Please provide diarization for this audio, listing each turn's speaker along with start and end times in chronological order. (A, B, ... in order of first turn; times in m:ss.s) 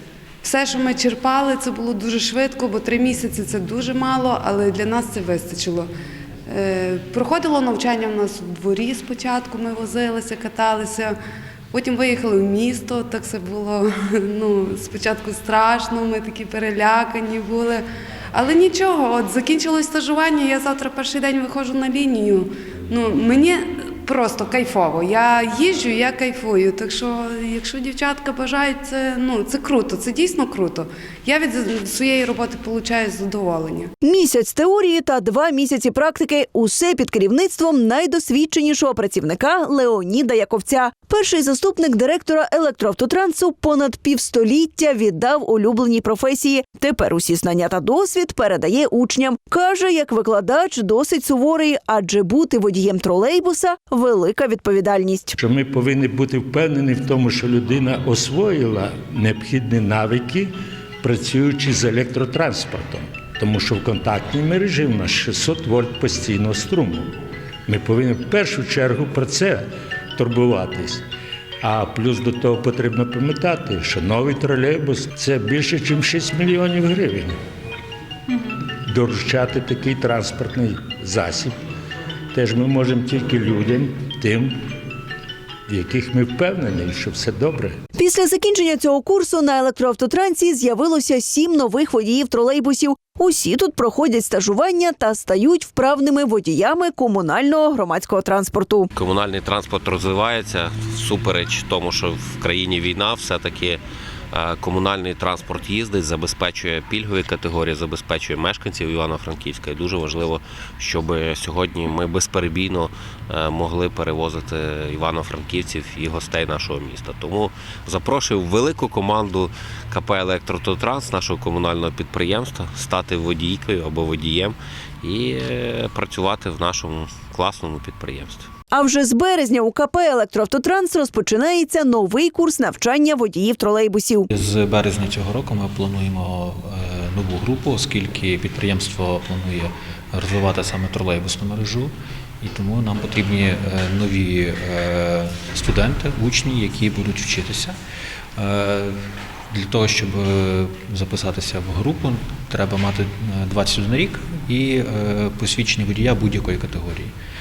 0:00.4-0:05.9 A
0:06.5-0:11.2 A
0:11.7-0:33.9 A
0:34.0-0:55.4 B
0:55.4-1:00.5 C
1:01.0-1:07.1 C
1:07.7-1:11.0 C
1:11.6-1:17.4 C
1:18.9-1:21.5 C
1:22.3-1:24.6 C
1:25.7-1:27.8 C
1:28.0-1:38.9 B
1:39.0-2:08.5 D
2:08.7-2:14.3 B
2:14.3-2:27.8 E
2:28.4-2:37.1 E